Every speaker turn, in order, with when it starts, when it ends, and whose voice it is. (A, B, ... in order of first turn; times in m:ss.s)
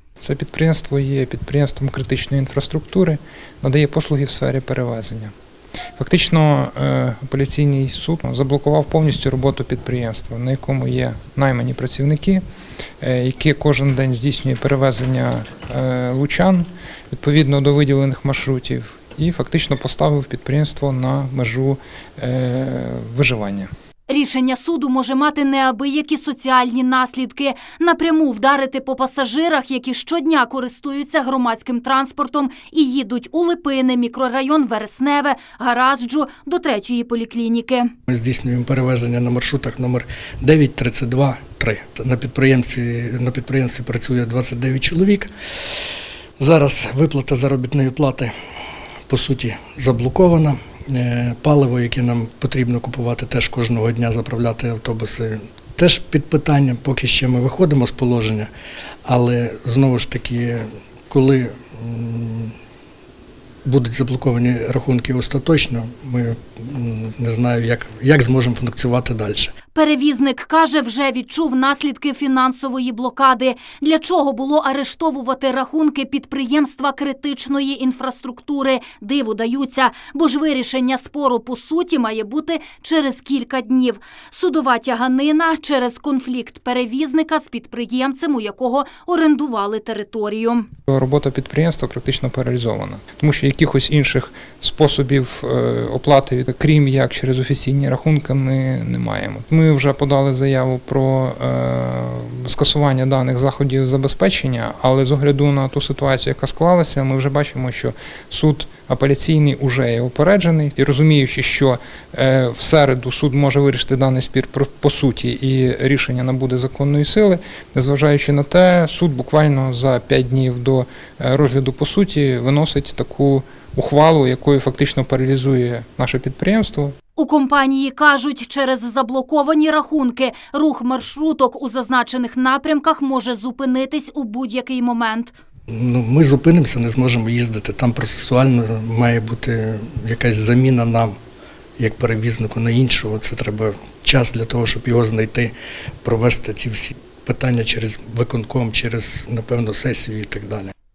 0:00.2-0:05.3 A
0:06.0-0:12.4 A
0:13.0-0:23.7 A
0:24.1-0:37.9 B
0:38.1-0:45.3 C
0:46.4-0:48.3 C
0:49.1-0:58.5 C
0:59.1-1:02.5 C
1:03.6-1:09.5 C
1:09.7-1:30.7 B
1:30.9-2:06.9 A
2:07.2-2:15.3 B
2:15.7-2:21.1 C
2:21.8-2:30.7 C